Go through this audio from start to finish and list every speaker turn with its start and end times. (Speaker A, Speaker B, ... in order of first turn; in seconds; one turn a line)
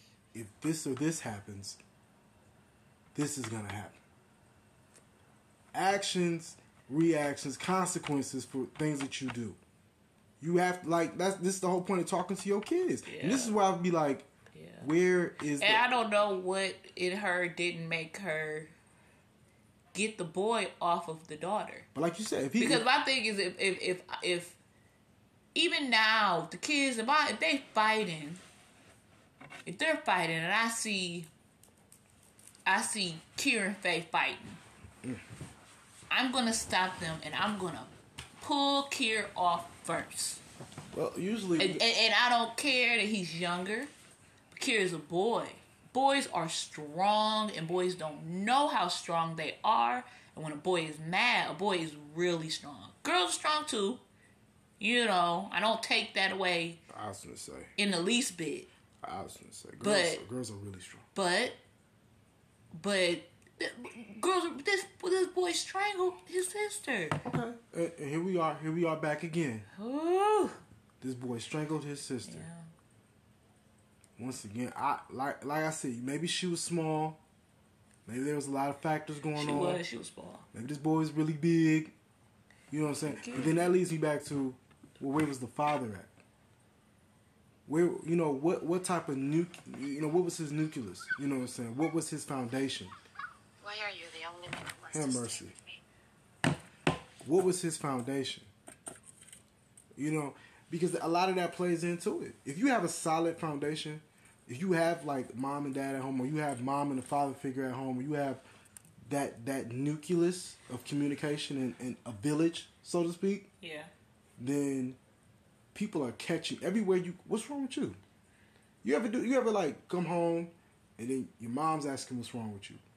Speaker A: 0.3-1.8
Speaker A: 3.1-4.0
Speaker A: 5.7-9.6
Speaker A: 10.4-14.3
Speaker B: 13.1-13.6
Speaker B: 14.5-14.9
Speaker A: 14.8-15.8
Speaker B: 15.6-18.7
Speaker B: 19.9-21.9
Speaker A: 21.9-22.8
Speaker B: 22.6-24.6
Speaker B: 25.6-28.4
Speaker B: 29.7-31.3
Speaker B: 32.7-34.6
Speaker B: 36.1-40.4
Speaker A: 40.9-41.8
Speaker B: 41.6-43.9
Speaker B: 44.5-54.0
Speaker B: 54.8-56.8
Speaker A: 56.9-57.7
Speaker B: 57.8-58.7
Speaker A: 59.0-61.0
Speaker B: 59.8-60.2
Speaker B: 61.1-61.6
Speaker B: 62.7-67.2
Speaker A: 67.2-69.7
Speaker B: 69.7-70.6
Speaker A: 71.0-72.5
Speaker B: 72.3-72.7
Speaker A: 74.2-77.2
Speaker A: 78.1-79.8
Speaker B: 79.4-80.5
Speaker A: 80.5-81.9
Speaker A: 82.7-86.1
Speaker B: 83.0-83.8
Speaker A: 87.7-92.9
Speaker C: 93.6-95.6
Speaker A: 94.9-95.5
Speaker A: 97.2-98.5
Speaker A: 100.0-108.4
Speaker A: 109.0-113.5
Speaker B: 113.6-113.9
Speaker A: 114.4-115.0
Speaker A: 115.7-118.0
Speaker A: 118.8-122.8